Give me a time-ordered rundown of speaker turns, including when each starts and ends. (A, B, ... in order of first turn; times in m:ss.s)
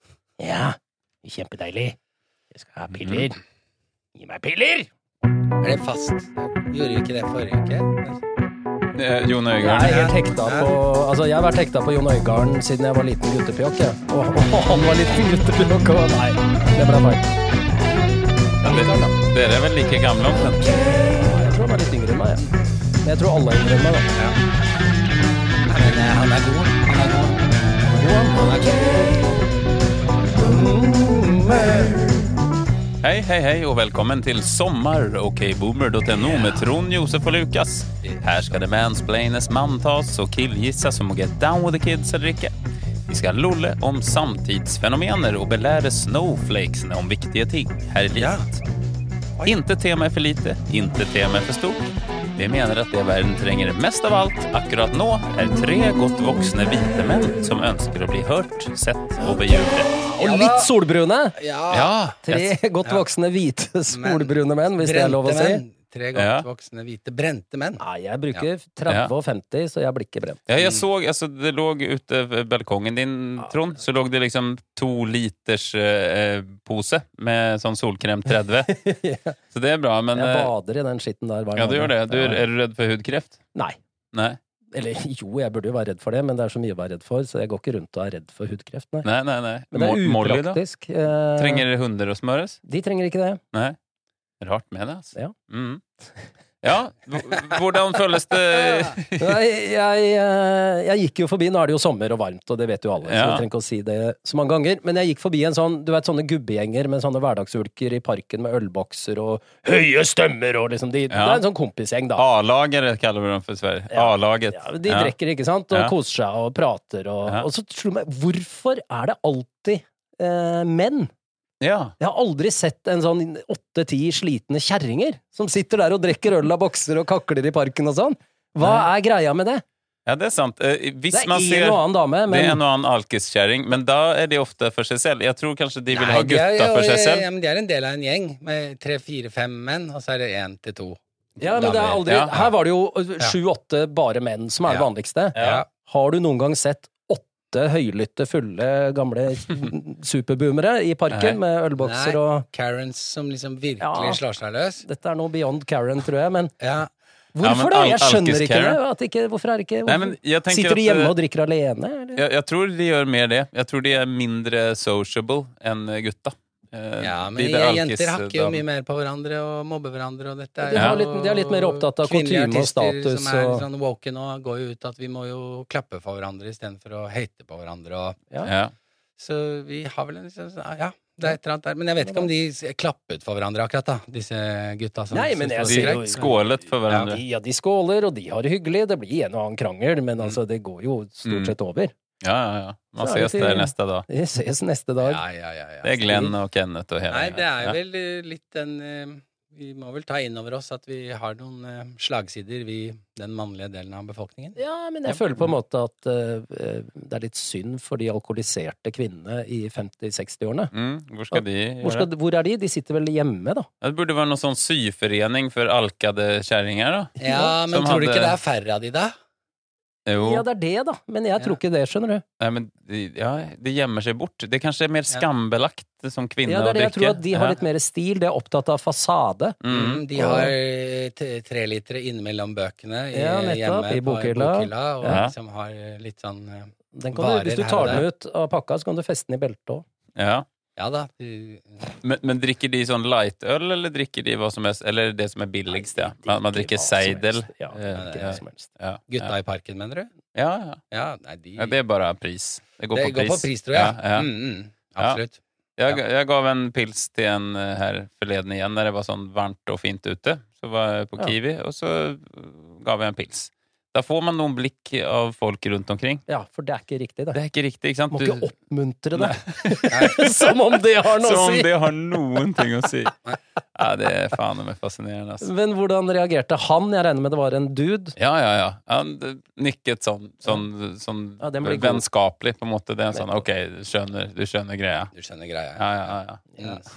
0:00.4-0:02.0 A
0:02.5-0:03.4 A
0:03.0-0:03.3 B
0:04.2-0:04.9 A
0:05.6-0:08.2 C
0:09.0-0:10.0 B
0:09.6-0:17.4 A
0:09.8-0:10.7 C
0:18.6-0:19.2 A
0:18.6-0:20.8 B
0:20.6-0:22.5 A
0:23.0-0:24.1 A
0:25.7-0:29.4 C
0:27.8-0:29.1 A
0:30.3-0:32.2 C
0:33.0-0:42.5 B
0:36.2-0:36.6 C
0:38.0-0:38.4 C
0:43.1-0:48.5 B
0:48.1-0:48.5 C
0:49.4-0:59.9 B
1:00.1-1:01.4 A
1:00.2-1:00.7 C
1:01.4-1:02.0 C
1:01.7-1:02.6 B
1:02.2-1:05.6 A
1:03.9-1:07.8 C
1:06.2-1:06.5 B
1:07.8-1:10.4 A
1:10.5-1:18.7 B
1:10.6-1:10.9 C
1:18.7-1:19.4 A
1:19.5-1:20.5 B
1:20.1-1:22.5 A
1:21.6-1:23.4 B
1:24.1-1:24.4 B
1:24.7-1:29.1 A
1:29.0-1:30.6 B
1:29.7-1:31.6 A
1:31.4-1:32.6 B
1:32.6-1:33.4 A
1:34.4-1:35.8 B
1:36.6-1:39.4 B
1:39.2-1:52.2 A
1:43.0-1:43.4 B
1:51.1-1:51.4 B
1:52.2-1:55.1 B
1:53.9-2:01.1 A
2:01.6-2:02.0 B
2:02.0-2:09.6 A
2:08.6-2:08.9 B
2:10.1-2:17.3 B
2:11.1-2:12.6 A
2:15.9-2:21.0 C
2:21.4-2:32.5 A
2:21.5-2:22.4 C
2:22.1-2:22.4 B
2:24.7-2:25.7 C
2:25.4-2:25.6 B
2:31.1-2:31.4 B
2:31.8-2:34.8 C
2:33.8-2:34.2 A
2:34.8-2:36.5 A
2:36.6-2:36.9 C
2:37.4-2:42.2 A
2:37.4-2:38.8 B
2:39.9-2:41.1 B
2:42.2-2:48.6 B
2:47.0-2:58.2 C
2:50.6-2:53.6 A
2:50.8-2:51.0 B
2:58.4-2:58.7 B
2:59.2-3:06.3 C
3:02.0-3:02.3 A
3:05.1-3:06.4 A
3:05.7-3:07.2 B
3:06.9-3:07.2 C
3:07.0-3:11.9 A
3:11.2-3:11.5 B
3:12.2-3:14.1 B
3:13.0-3:15.2 A
3:15.0-3:16.0 C
3:15.8-3:17.8 B
3:16.0-3:16.3 A
3:17.1-3:24.6 C
3:24.6-3:30.7 A
3:30.7-3:32.1 B
3:31.3-3:33.7 A
3:33.8-3:38.4 B
3:37.2-3:39.1 C
3:37.2-3:37.5 A
3:40.1-3:40.4 B
3:40.2-3:42.2 A
3:42.4-3:47.6 B
3:46.4-3:49.6 A
3:49.6-3:50.0 B
3:49.7-3:58.0 C
3:50.1-3:50.5 A
3:53.1-3:55.2 A
3:55.1-3:55.3 B
3:56.9-3:59.8 A
4:00.2-4:00.5 B
4:00.8-4:01.8 C
4:02.0-4:09.3 B
4:05.7-4:08.7 A
4:07.9-4:08.4 C
4:09.1-4:10.1 C
4:10.3-4:10.8 B
4:10.9-4:11.8 C
4:11.6-4:14.3 B
4:12.9-4:16.0 C
4:15.8-4:26.2 B
4:26.3-4:27.4 A
4:27.3-4:28.5 B
4:28.1-4:31.7 A
4:29.2-4:30.3 B
4:29.9-4:30.2 C
4:31.0-4:33.2 B
4:33.8-4:35.5 B
4:35.4-4:38.2 A
4:38.2-4:45.1 B
4:41.4-4:42.1 A
4:45.1-4:46.8 C
4:45.8-4:46.5 B